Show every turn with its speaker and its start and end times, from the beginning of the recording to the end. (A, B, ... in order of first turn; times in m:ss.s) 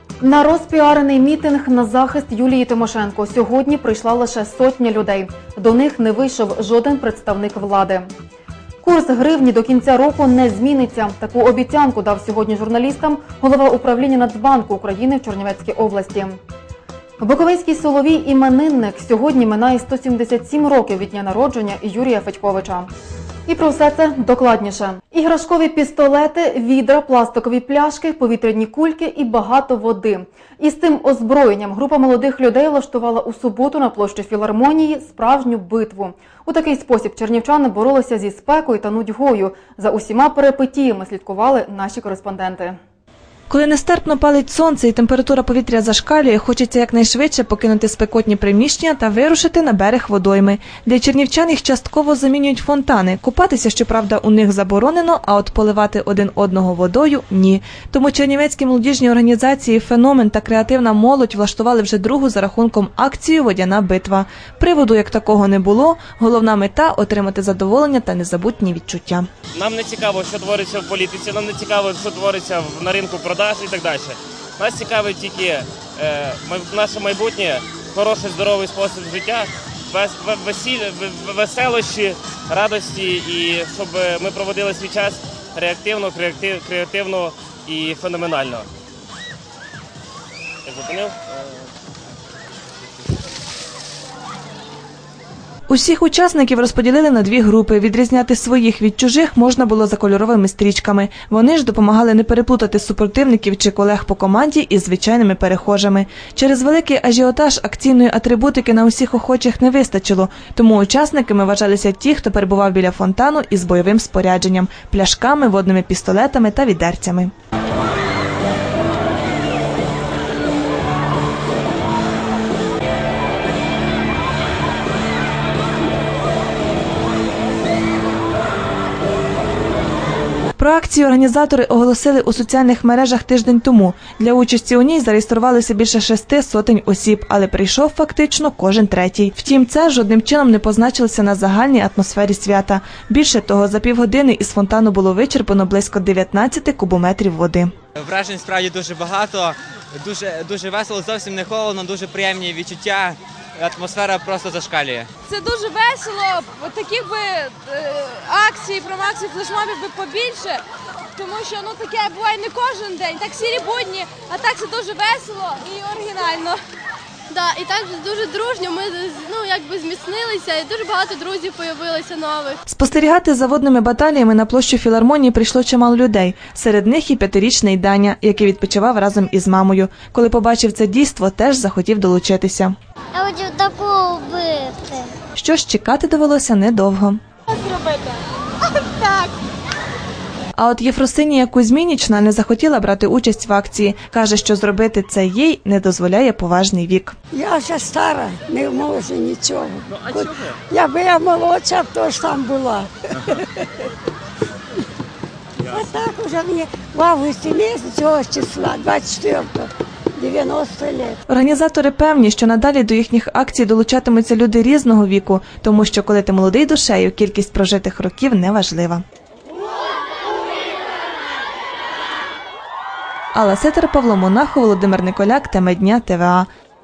0:00.2-0:08.1 A
0:08.8-0:16.4 A
0:17.2-0:22.9 A
0:23.5-0:42.8 A
0:43.5-1:09.3 B
1:09.5-1:28.7 C
1:30.6-1:31.2 C
1:35.7-1:57.3 B
2:10.6-2:27.7 B
2:28.0-2:35.1 D
2:35.3-2:40.6 E
2:41.2-2:46.6 E
2:47.3-2:52.6 F
2:52.7-3:02.7 B
3:03.1-3:05.2 G
3:05.4-3:07.2 B
3:07.5-3:09.3 E
3:10.6-3:17.2 B
3:17.3-3:23.6 H
3:25.7-3:31.2 H
3:31.3-3:39.0 B
3:43.3-3:46.5 B